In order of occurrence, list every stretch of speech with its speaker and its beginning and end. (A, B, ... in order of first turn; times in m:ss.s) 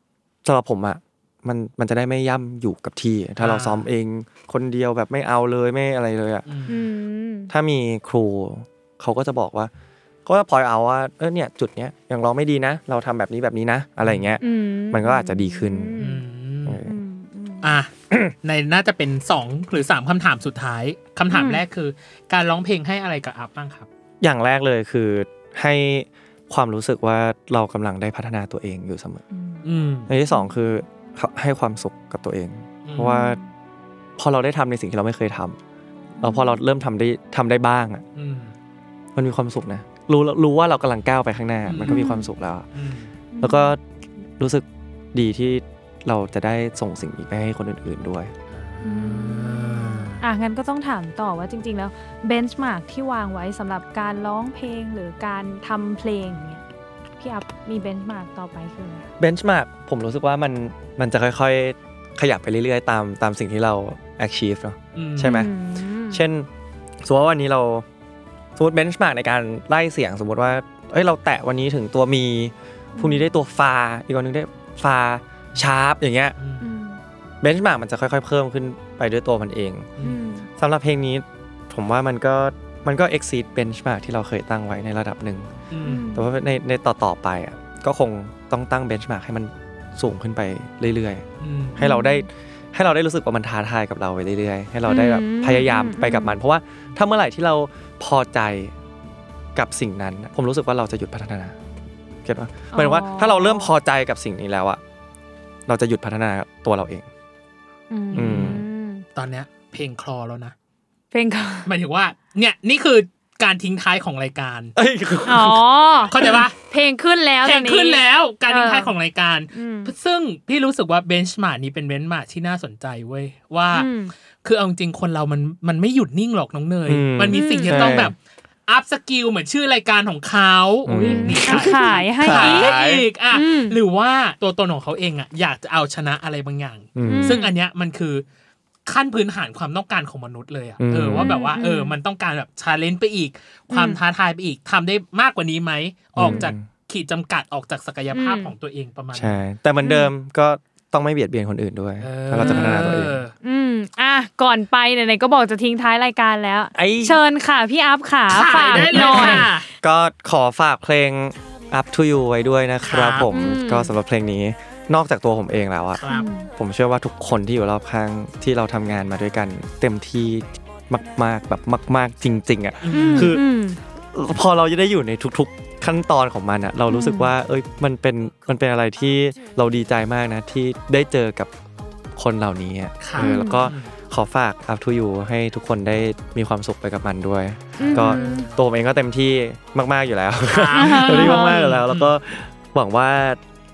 0:00.4-0:06.4 A
0:03.4-0:03.9 B
0:06.4-0:06.8 B
0:06.7-0:07.5 C
0:07.5-0:09.7 A
0:10.2-0:16.0 A
0:14.0-0:14.3 B
0:14.4-0:16.2 C
0:16.0-0:16.8 B
0:16.6-0:17.0 A
0:16.8-0:17.7 C
0:17.6-0:17.9 B
0:18.4-0:23.9 B
0:21.3-0:21.6 C
0:24.2-0:29.2 A
0:29.3-0:29.6 C
0:29.6-0:30.1 B
0:30.1-0:33.4 A
0:32.8-0:33.2 B
0:33.0-0:33.5 C
0:34.2-0:35.6 A
0:36.2-0:36.6 C
0:36.2-0:38.0 A
0:38.1-0:38.5 B
0:39.2-0:42.7 A
0:41.6-0:42.0 B
0:41.8-0:42.3 C
0:42.7-0:43.1 B
0:43.3-0:43.7 C
0:43.4-0:43.8 A
0:44.4-0:48.3 A
0:48.5-0:50.2 B
0:48.8-0:56.6 C
0:57.2-0:59.1 C
0:59.2-1:05.5 A
1:04.9-1:05.4 B
1:05.2-1:06.2 C
1:06.1-1:06.5 A
1:07.0-1:07.8 A
1:08.6-1:16.4 A
1:12.9-1:13.2 C
1:16.4-1:16.7 B
1:16.6-1:17.0 C
1:17.4-1:19.9 A
1:20.0-1:20.5 C
1:20.6-1:25.5 A
1:25.7-1:26.1 B
1:25.8-1:26.3 C
1:26.1-1:31.2 A
1:31.4-1:31.8 B
1:31.8-1:38.7 A
1:31.8-1:32.3 C
1:34.9-1:36.4 C
1:39.5-1:41.6 A
1:42.2-1:44.8 A
1:42.7-1:43.7 C
1:45.7-1:47.1 A
1:47.9-1:49.0 C
1:48.1-1:48.6 B
1:48.1-1:48.6 A
1:49.2-1:50.5 B
1:51.1-1:51.7 C
1:51.6-1:54.7 B
1:54.8-1:55.6 A
1:55.2-1:58.9 C
1:56.1-1:56.6 B
1:57.4-2:03.9 B
1:59.5-1:59.9 C
2:03.7-2:04.1 C
2:04.4-2:08.2 B
2:06.8-2:08.1 A
2:07.3-2:08.0 C
2:08.7-2:18.2 B
2:10.8-2:13.0 A
2:10.9-2:12.7 C
2:13.3-2:13.8 C
2:16.9-2:17.4 A
2:17.0-2:17.5 C
2:18.9-2:29.4 B
2:20.8-2:21.4 A
2:21.2-2:22.0 C
2:23.7-2:24.0 C
2:26.2-2:26.6 A
2:26.2-2:26.5 C
2:28.1-2:28.5 C
2:29.1-2:33.2 A
2:29.8-2:30.1 C
2:32.0-2:33.3 B
2:32.4-2:32.8 C
2:33.4-2:39.5 C
2:36.7-2:37.2 A
2:38.3-2:39.7 B
2:38.7-2:53.4 A
2:42.8-2:43.3 B
2:43.3-2:43.9 C
2:46.0-2:46.3 B
2:46.1-2:46.5 C
2:52.8-2:53.3 B
2:52.9-2:53.8 C
2:54.1-3:01.5 A
2:56.9-2:57.3 C
3:02.2-3:13.4 A
3:03.0-3:03.9 B
3:03.2-3:03.6 C
3:07.8-3:08.5 C
3:07.8-3:08.6 B
3:10.4-3:12.1 B
3:10.7-3:11.5 C